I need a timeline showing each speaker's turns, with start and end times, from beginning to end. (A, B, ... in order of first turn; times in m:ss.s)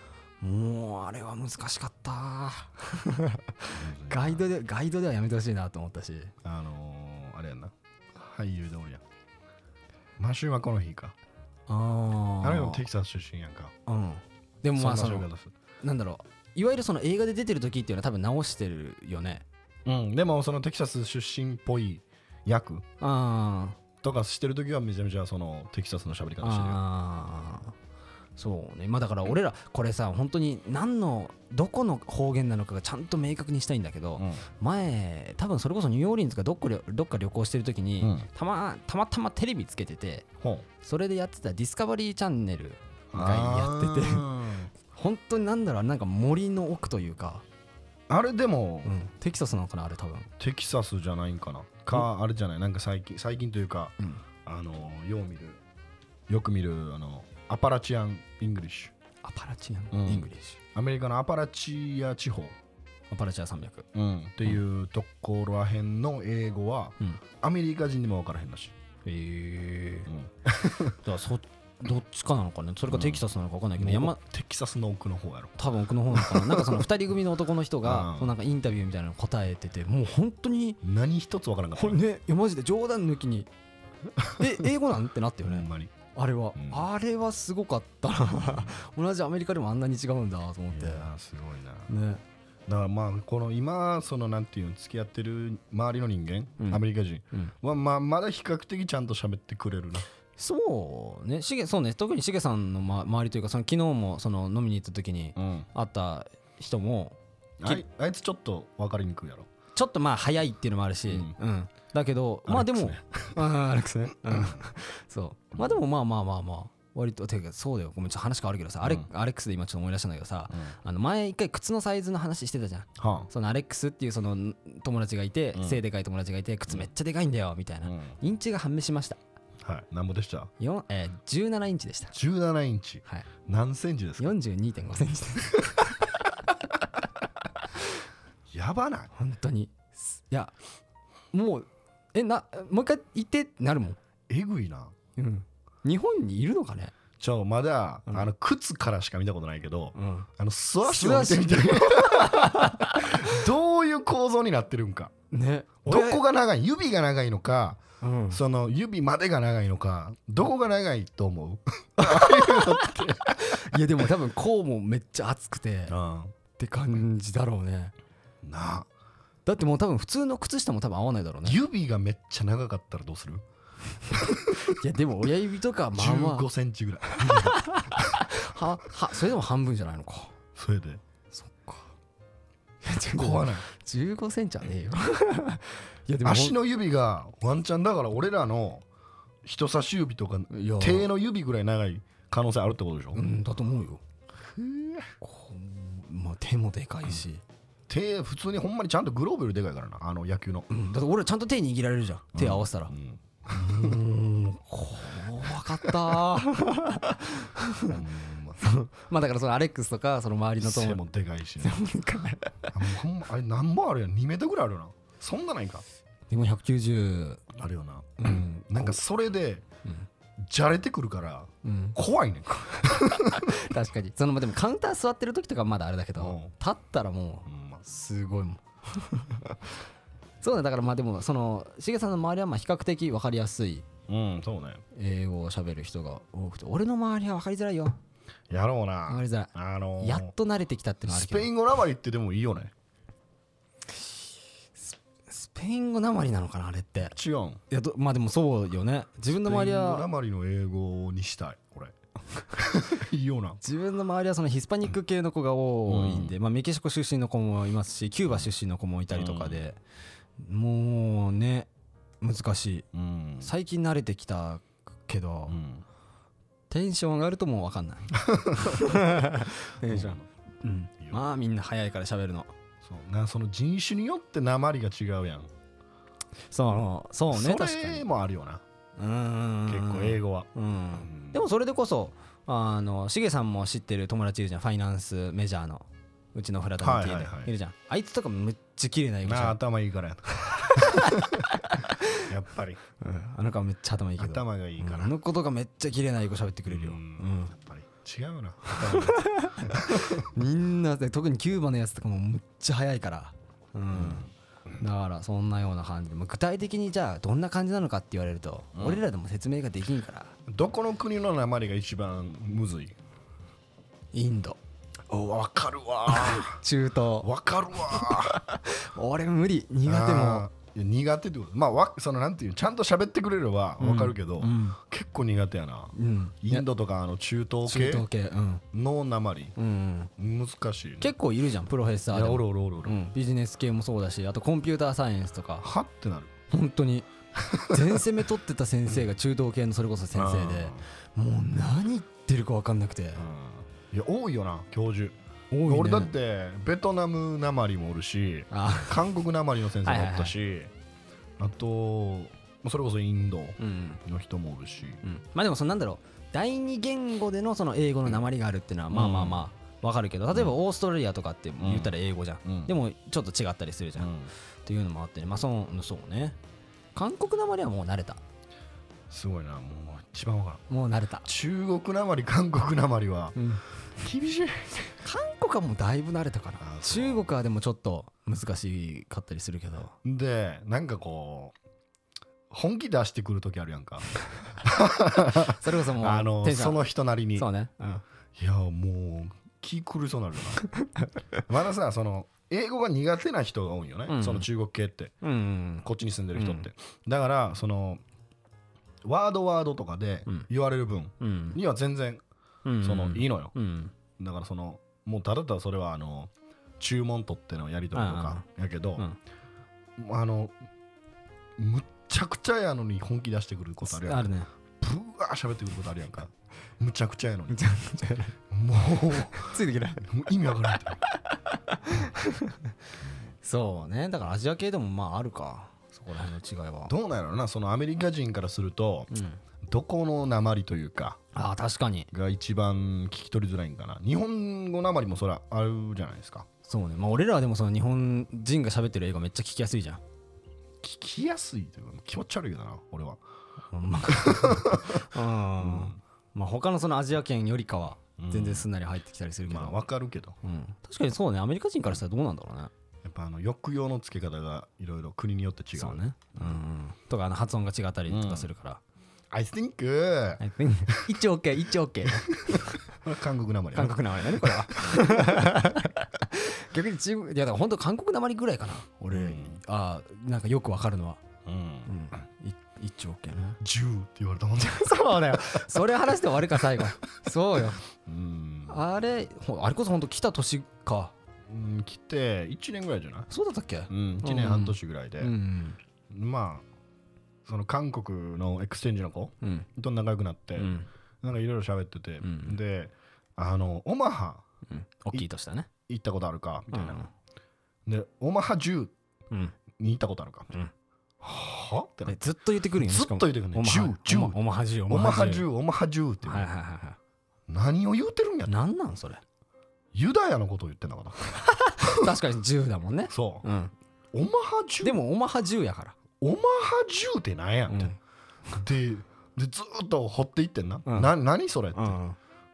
0:00.4-0:06.3 A
0:03.7-0:04.5 B
0:06.4-0:09.0 B
0:10.2-0:11.1 B
0:11.7-0:12.8 A
0:12.4-0:13.7 B
0:13.9-0:15.3 A
0:14.7-0:15.5 B
0:15.8-0:19.4 A
0:19.8-0:22.8 B
0:23.0-0:23.8 A
0:24.0-0:26.8 B
0:26.4-0:27.7 A
0:28.4-0:40.3 A
0:34.2-0:34.4 B
0:38.0-0:38.3 B
0:40.4-0:40.7 B
0:40.8-0:47.4 A
0:43.1-0:44.7 B
0:48.1-0:48.9 B
0:48.8-0:50.3 A
0:50.4-0:55.6 B
0:56.3-0:58.9 B
0:59.2-1:00.6 A
0:59.9-1:02.6 B
1:03.1-1:03.9 A
1:03.9-1:08.7 B
1:09.0-1:10.1 A
1:10.1-1:11.0 B
1:11.0-1:14.2 A
1:12.9-1:13.2 B
1:13.8-1:15.6 B
1:15.6-1:20.8 A
1:16.1-1:16.8 B
1:17.8-1:18.3 B
1:20.8-1:22.0 B
1:21.8-1:23.5 A
1:24.2-1:24.5 B
1:24.2-1:31.1 A
1:25.4-1:26.0 B
1:26.5-1:26.8 B
1:28.4-1:28.7 B
1:30.7-1:31.9 B
1:31.9-1:32.2 A
1:32.7-1:40.1 B
1:36.6-1:37.5 A
1:40.4-1:47.8 A
1:45.4-1:45.7 B
1:47.6-1:49.5 B
1:49.7-2:09.2 A
1:51.1-1:51.4 B
1:52.4-1:53.5 B
1:54.3-1:54.6 B
1:58.8-1:59.1 B
2:03.0-2:03.3 B
2:05.5-2:05.8 B
2:07.8-2:08.1 B
2:09.6-2:10.5 B
2:10.6-2:12.1 A
2:12.1-2:14.3 B
2:14.2-2:16.5 A
2:18.5-2:19.1 B
2:19.1-2:20.5 A
2:21.3-2:24.0 A
2:24.3-2:24.9 B
2:25.2-2:26.9 A
2:27.2-2:35.1 B
2:29.9-2:30.3 A
2:30.8-2:33.4 A
2:35.3-2:36.2 A
2:35.8-2:43.8 B
2:38.0-2:38.4 A
2:42.0-2:45.9 A
2:45.9-2:46.3 B
2:46.6-2:47.9 A
2:48.4-2:48.9 B
2:49.4-2:51.6 A
2:51.4-2:53.4 B
2:54.1-2:56.5 A
2:54.2-2:54.7 B
2:55.9-2:58.2 B
2:57.1-3:00.3 A
3:00.6-3:01.0 B
3:01.3-3:01.9 A
3:02.8-3:06.6 A
3:03.2-3:03.6 B
3:06.2-3:08.8 B
3:09.4-3:13.2 B
3:10.5-3:11.1 A
3:13.1-3:14.0 A
3:14.4-3:15.1 B
3:15.2-3:17.4 A
3:17.9-3:20.7 B
3:20.7-3:22.9 A
3:22.3-3:24.0 B
3:23.5-3:28.0 A
3:25.4-3:26.0 B
3:27.8-3:28.6 B
3:28.6-3:31.0 A
3:30.6-3:31.8 B
3:31.6-3:32.7 A
3:32.7-3:35.8 B
3:36.3-3:37.4 A
3:37.5-3:39.6 B
3:38.2-3:39.0 A
3:40.4-3:43.6 B
3:41.6-3:42.0 A
3:42.8-3:49.4 A
3:46.2-3:46.5 B
3:47.5-3:47.8 B
3:50.4-3:53.8 A
3:54.1-3:54.8 B
3:54.9-3:58.0 A
3:58.5-4:00.3 B
3:59.1-4:01.5 A
4:01.1-4:02.7 B
4:05.3-4:07.2 A
4:07.1-4:07.6 B
4:07.7-4:10.0 A
4:09.3-4:13.6 B
4:13.6-4:19.8 A
4:15.9-4:16.4 B
4:19.1-4:19.6 B
4:20.4-4:21.7 A
4:22.2-4:22.9 A
4:22.9-4:23.5 B
4:23.4-4:25.6 A
4:25.5-4:25.8 B
4:26.7-4:32.5 A
4:28.1-4:30.2 B
4:32.8-4:35.5 B
4:36.5-4:38.0 A
4:37.3-4:38.6 B
4:39.0-4:49.6 A
4:39.7-4:41.4 B
4:46.8-4:47.5 B
4:49.2-4:51.6 B
4:50.5-4:52.2 A
4:52.1-4:52.8 B
4:53.0-4:57.5 A
4:54.2-4:55.1 B
4:56.7-5:00.3 B
4:58.7-5:04.3 A
5:03.9-5:04.3 B
5:04.8-5:10.3 A
5:08.7-5:09.0 B
5:10.5-5:13.0 B
5:14.1-5:14.6 A
5:15.1-5:16.6 B
5:16.1-5:17.3 A
5:17.2-5:18.4 B
5:17.9-5:20.5 A
5:19.8-5:28.0 B
5:23.8-5:24.8 A
5:25.9-5:26.6 A
5:27.7-5:28.6 A
5:28.7-5:29.6 B
5:29.6-5:30.1 A
5:30.2-5:31.1 B
5:31.0-5:35.7 A
5:32.1-5:33.0 B
5:35.6-5:36.3 B
5:36.5-5:43.2 A
5:37.4-5:38.0 B
5:40.1-5:40.8 B
5:43.2-5:50.7 B
5:45.5-5:46.1 A
5:48.5-5:49.1 A
5:49.8-5:50.3 A
5:51.4-5:55.0 B
5:53.6-5:54.0 A
5:55.0-6:04.1 A
5:58.9-5:59.5 B
6:01.6-6:01.9 B
6:02.4-6:02.7 B
6:04.0-6:04.3 B
6:04.6-6:06.4 A
6:06.9-6:08.2 A
6:09.1-6:10.6 B
6:10.7-6:11.3 A
6:11.2-6:13.4 B
6:13.4-6:13.6 A
6:14.0-6:15.0 B
6:15.0-6:19.9 A
6:16.6-6:17.3 B
6:20.0-6:21.5 B
6:22.5-6:30.6 B
6:25.3-6:26.8 A
6:27.3-6:28.0 A
6:31.4-6:35.1 B
6:34.1-6:34.5 A
6:35.2-6:36.7 A
6:35.8-6:38.0 B
6:39.0-6:42.2 B
6:41.2-6:41.6 A
6:42.6-6:43.9 A
6:42.8-6:43.5 B
6:44.2-6:49.0 B
6:47.9-6:48.4 A
6:50.0-6:50.5 B
6:51.6-6:54.3 B
6:53.8-6:54.5 A
6:54.8-7:01.0 B
6:57.5-6:58.3 A
6:59.1-7:00.1 A
7:00.7-7:02.7 A
7:03.0-7:03.3 B
7:03.4-7:06.9 A
7:06.9-7:09.1 B
7:09.1-7:09.4 A
7:09.6-7:11.2 B
7:11.3-7:12.1 A
7:12.1-7:16.5 B
7:16.6-7:20.0 A
7:20.8-7:23.2 B
7:23.7-7:29.8 A
7:24.1-7:25.0 B
7:25.6-7:26.0 B
7:28.2-7:28.7 B
7:29.5-7:30.4 B
7:30.4-7:32.7 A
7:33.0-7:36.6 B
7:35.7-7:38.8 A
7:38.1-7:38.5 B
7:39.3-7:41.0 B
7:40.4-7:42.8 A
7:42.1-7:45.4 B
7:43.7-7:51.2 A
7:49.1-7:49.6 B
7:51.4-7:51.9 B
7:51.8-7:53.6 A
7:53.6-7:55.6 B
7:54.6-7:57.8 A
7:58.0-7:58.8 B
7:58.7-8:01.1 A
8:01.5-8:03.3 B
8:03.3-8:05.8 A
8:03.9-8:05.3 B
8:06.1-8:06.6 B
8:07.4-8:14.4 B
8:09.4-8:09.7 A
8:10.6-8:10.9 A
8:12.2-8:12.6 A
8:14.7-8:15.7 A
8:15.9-8:17.0 B
8:16.7-8:17.1 A
8:17.8-8:18.9 B
8:19.3-8:19.6 A
8:19.7-8:20.5 B
8:21.2-8:22.2 B
8:22.0-8:25.5 A
8:22.8-8:26.5 B
8:26.2-8:27.0 A
8:27.5-8:28.6 B
8:28.5-8:29.2 A
8:29.9-8:32.1 B
8:31.4-8:33.7 A
8:33.1-8:33.4 B
8:34.1-8:35.0 B
8:34.8-8:36.0 A
8:36.2-8:38.0 B
8:37.7-8:38.0 A
8:38.5-8:42.0 B
8:40.8-8:41.1 A
8:41.7-8:42.2 A